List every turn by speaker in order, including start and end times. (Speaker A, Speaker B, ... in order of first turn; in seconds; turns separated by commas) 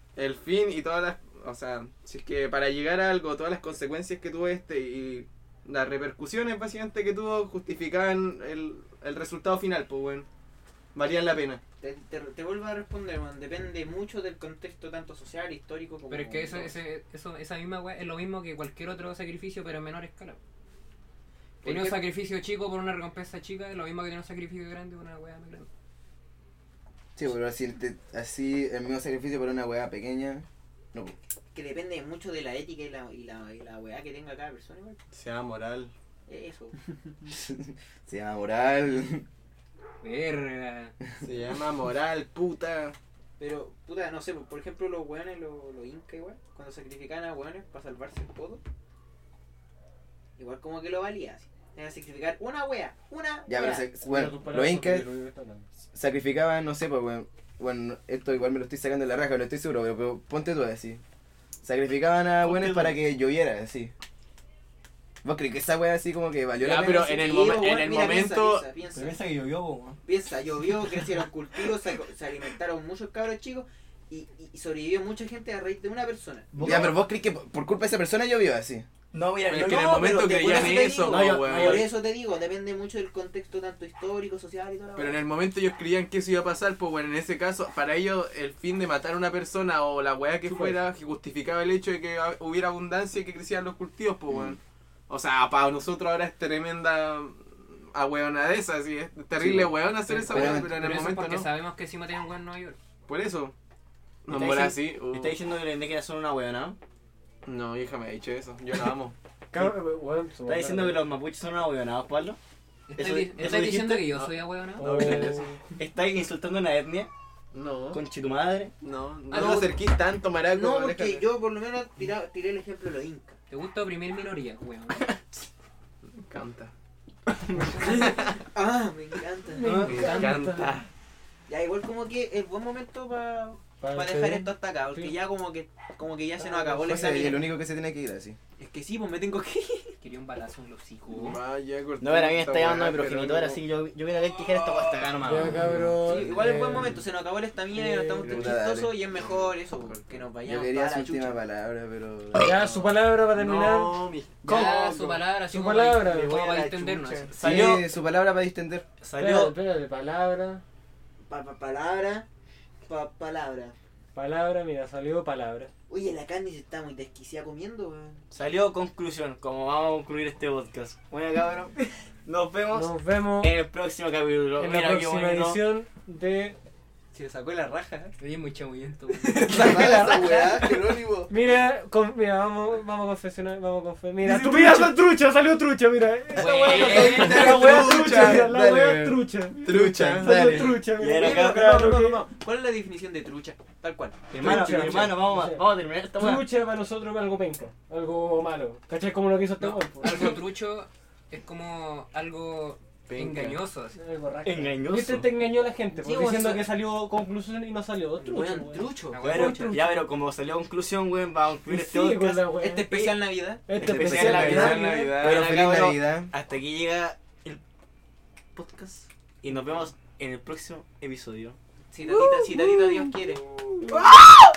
Speaker A: 0.2-10.3, Speaker A: 10.9-11.6, Speaker B: 11.8-16.8, Speaker C: 16.1-20.4, Speaker B: 21.6-22.0, Speaker C: 21.6-25.7, Speaker D: 27.2-31.1, Speaker B: 31.5-35.0, Speaker A: 35.1-35.9, Speaker B: 36.3-36.8, Speaker D: 37.3-39.3, Speaker C: 40.0-40.9, Speaker A: 41.2-43.0, Speaker B: 43.4-48.6, Speaker B: 50.4-53.9, Speaker D: 53.5-55.1, Speaker E: 54.0-55.7, Speaker D: 55.9-61.0, Speaker D: 61.6-63.9, Speaker F: 62.4-63.0, Speaker D: 65.2-67.1, Speaker A: 66.6-68.7, Speaker B: 66.7-69.2, Speaker F: 68.9-70.0, Speaker B: 70.0-76.5, Speaker F: 76.5-77.0, Speaker D: 76.6-78.9, Speaker F: 79.1-82.0, Speaker A: 79.4-81.9, Speaker B: 80.0-85.3, Speaker A: 85.0-94.6, Speaker E: 90.5-90.8, Speaker D: 94.3-94.6, Speaker A: 95.1-101.5, Speaker D: 99.4-99.7, Speaker C: 100.0-102.8, Speaker D: 100.3-100.8, Speaker A: 103.1-103.5, Speaker A: 104.2-105.4, Speaker F: 104.3-106.8, Speaker A: 107.5-109.2, Speaker E: 109.5-111.0, Speaker F: 110.4-112.4, Speaker C: 112.9-115.3, Speaker F: 112.9-114.1, Speaker F: 114.8-117.1, Speaker E: 114.8-115.6, Speaker A: 117.5-118.0, Speaker F: 117.9-118.7, Speaker A: 118.8-121.3, Speaker C: 119.3-119.7, Speaker B: 119.3-119.8, Speaker B: 120.5-123.4, Speaker C: 123.5-125.1, Speaker A: 126.2-126.7, Speaker A: 127.7-128.4, Speaker B: 128.4-129.8, Speaker E: 129.5-130.7, Speaker F: 129.6-130.7, Speaker A: 129.8-130.8, Speaker C: 129.9-130.4, Speaker B: 131.5-137.5, Speaker E: 133.8-135.1, Speaker D: 136.8-138.4, Speaker B: 138.6-139.9, Speaker C: 140.0-141.4, Speaker A: 141.1-143.6, Speaker F: 142.0-145.7, Speaker E: 145.2-147.0, Speaker B: 146.0-151.4, Speaker E: 147.7-148.3, Speaker A: 148.2-148.6, Speaker D: 148.3-148.9, Speaker A: 149.2-150.2, Speaker D: 150.4-152.6, Speaker E: 152.4-154.1, Speaker A: 152.6-154.9, Speaker F: 154.4-155.2, Speaker C: 154.4-157.3, Speaker E: 155.5-156.5, Speaker F: 156.1-157.9, Speaker D: 157.4-158.9, Speaker F: 159.0-159.6, Speaker E: 159.2-160.6, Speaker B: 161.3-162.3, Speaker B: 162.8-163.8, Speaker E: 164.2-165.7, Speaker B: 165.9-168.2, Speaker F: 168.3-175.6, Speaker E: 172.7-173.5, Speaker E: 174.6-176.6, Speaker B: 177.1-178.2, Speaker C: 178.2-179.5, Speaker B: 179.1-180.8, Speaker D: 179.5-180.8, Speaker A: 179.6-180.0, Speaker A: 180.6-181.3, Speaker E: 181.3-192.2, Speaker F: 184.2-184.9, Speaker B: 186.3-187.5, Speaker A: 186.6-188.5, Speaker C: 186.8-187.6, Speaker D: 187.7-190.6, Speaker A: 189.6-190.5, Speaker F: 190.2-191.7, Speaker B: 191.1-194.2, Speaker F: 194.3-196.5, Speaker E: 194.4-200.3, Speaker A: 194.4-195.2, Speaker C: 199.6-204.0, Speaker A: 203.1-203.6, Speaker E: 203.9-210.1, Speaker F: 204.4-205.3, Speaker B: 206.0-206.8, Speaker B: 208.2-209.8, Speaker C: 209.1-209.7, Speaker F: 209.2-212.5, Speaker E: 211.7-215.1, Speaker B: 212.6-213.6, Speaker F: 213.8-217.6, Speaker D: 213.8-216.3, Speaker A: 214.3-215.6, Speaker B: 214.5-215.0, Speaker F: 218.6-221.6, Speaker B: 221.9-223.4, Speaker F: 223.9-224.3